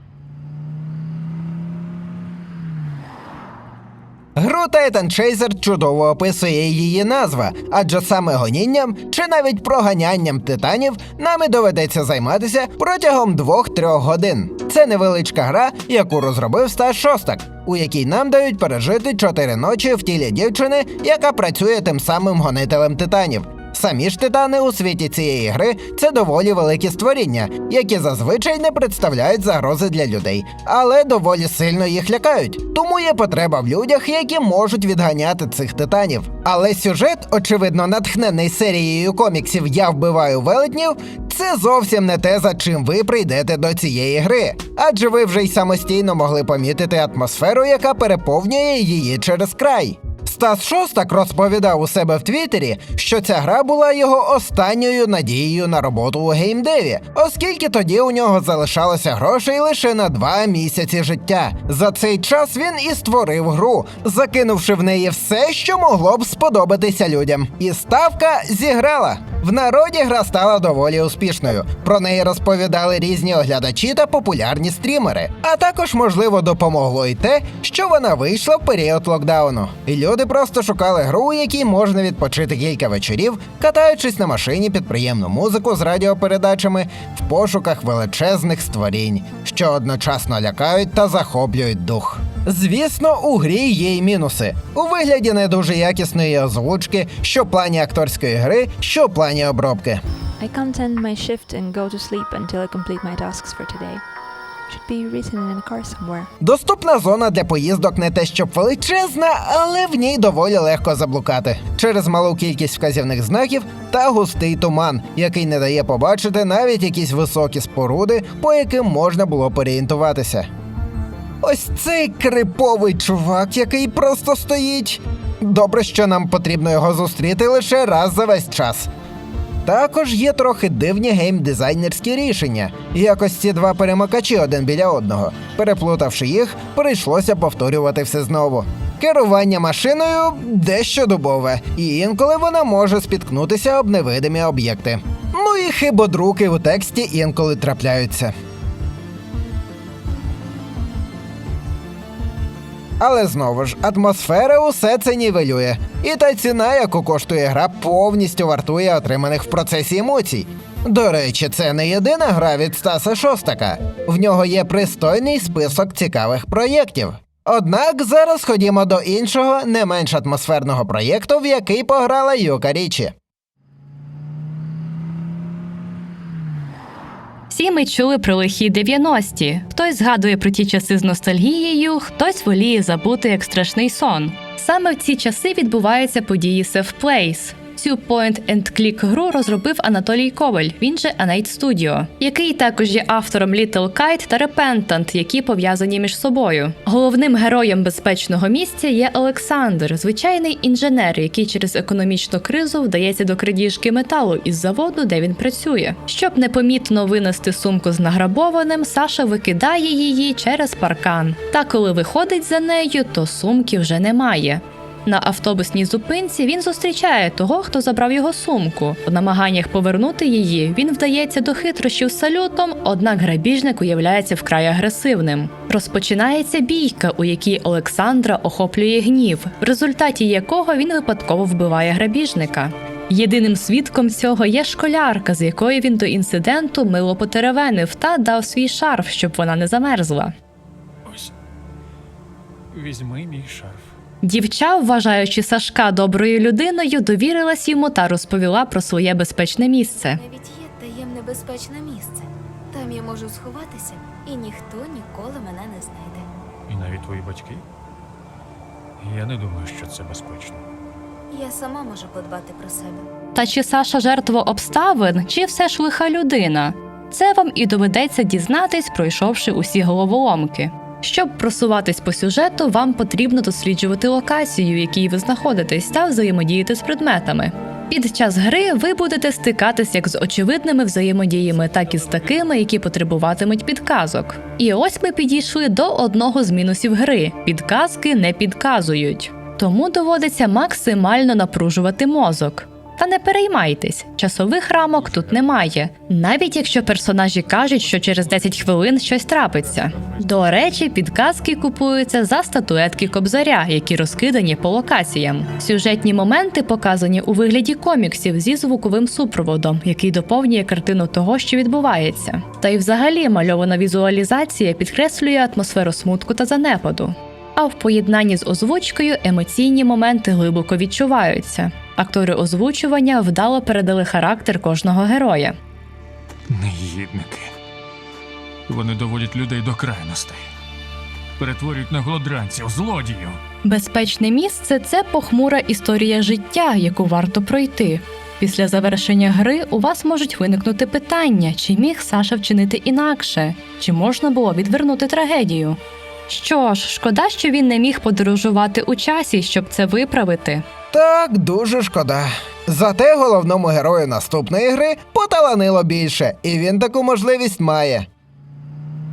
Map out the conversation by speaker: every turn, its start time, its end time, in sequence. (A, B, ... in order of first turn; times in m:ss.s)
0:04.4-1:40.0 A
1:40.4-1:44.0 B
1:44.7-1:46.3 B
1:46.4-2:00.5 A
2:01.4-2:08.9 A
2:09.6-2:28.3 A
2:33.0-2:53.1 A
2:57.5-4:00.3 C
4:01.0-4:01.3 D
4:02.7-4:03.9 D
4:04.2-4:10.2 C
4:10.0-4:16.3 E
4:16.7-4:17.6 D
4:19.0-4:20.6 D
4:21.3-4:23.0 E
4:23.3-5:25.6 C
5:26.5-5:27.5 D
5:28.7-5:30.5 D
5:31.4-5:33.4 D
5:33.6-5:50.6 C
5:50.9-5:58.1 A